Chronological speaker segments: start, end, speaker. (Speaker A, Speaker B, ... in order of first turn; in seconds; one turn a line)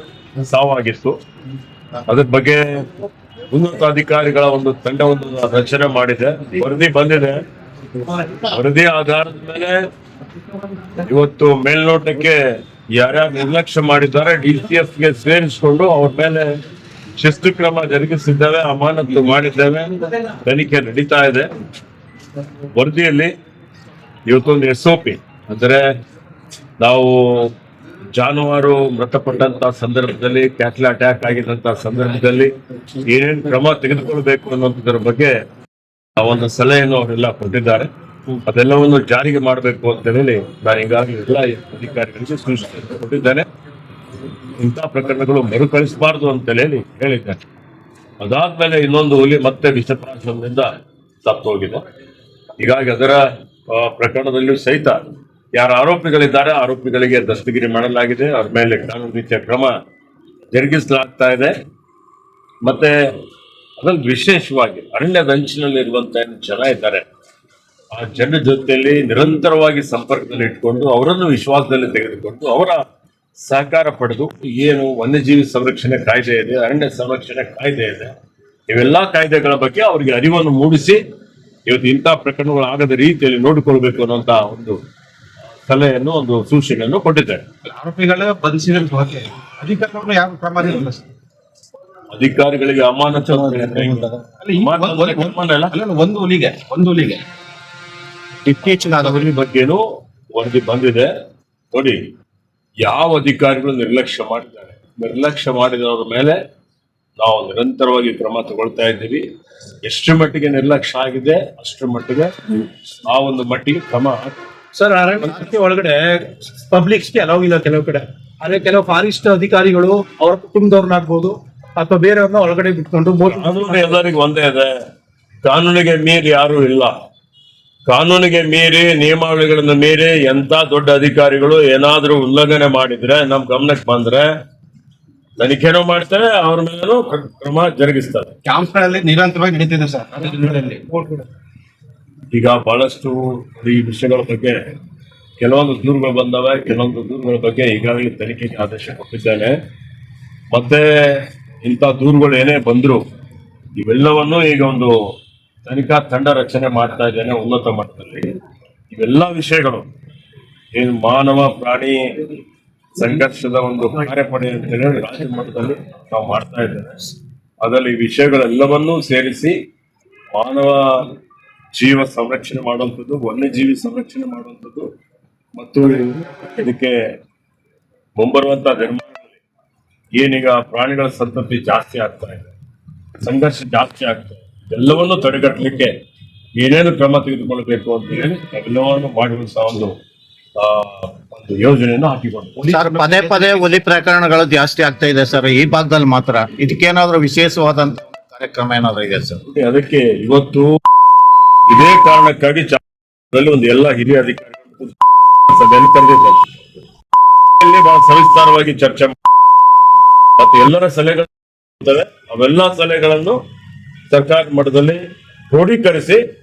Speaker A: 0.4-1.1
Speaker A: 2.1-2.9
Speaker A: 3.5-7.4
Speaker A: 8.3-9.9
Speaker A: 11.0-16.5
Speaker A: 17.1-21.5
Speaker A: 22.7-23.3
Speaker A: 24.3-25.8
Speaker A: 26.8-27.5
Speaker A: 28.1-35.3
Speaker A: 36.1-37.9
Speaker A: 38.5-43.5
Speaker A: 44.5-47.4
Speaker A: 48.2-50.7
Speaker A: 51.2-51.8
Speaker A: 52.6-55.0
Speaker A: 55.5-59.7
Speaker A: 60.5-61.5
Speaker A: 62.6-62.9
Speaker A: 63.8-67.0
Speaker A: 67.9-72.8
Speaker A: 73.4-78.1
Speaker A: 78.7-81.0
Speaker A: 81.7-84.8
Speaker A: 85.7-87.4
Speaker B: 87.7-91.0
Speaker A: 92.1-95.8
Speaker B: 93.2-97.2
Speaker A: 98.5-99.8
Speaker A: 100.3-101.1
Speaker A: 101.7-102.0
Speaker A: 102.8-106.3
Speaker A: 107.2-109.2
Speaker A: 109.8-114.4
Speaker C: 114.7-123.7
Speaker A: 123.3-124.7
Speaker A: 125.4-126.9
Speaker A: 127.9-134.3
Speaker A: 135.4-138.3
Speaker B: 138.4-141.1
Speaker A: 142.3-144.6
Speaker A: 145.4-149.5
Speaker A: 150.5-153.0
Speaker A: 153.8-154.9
Speaker A: 155.6-158.3
Speaker A: 158.9-159.9
Speaker A: 160.7-162.1
Speaker A: 162.9-169.6
Speaker A: 170.3-171.1
Speaker A: 171.7-174.9
Speaker A: 175.5-177.0
Speaker A: 178.2-179.4
Speaker A: 180.1-182.5
Speaker A: 183.2-185.9
Speaker A: 186.6-190.0
Speaker A: 190.6-192.7
Speaker B: 192.6-193.7
Speaker D: 192.7-199.4
Speaker A: 199.4-200.7
Speaker A: 201.7-204.9
Speaker A: 205.5-206.4
Speaker A: 207.6-209.2
Speaker A: 210.4-213.4
Speaker A: 214.1-216.2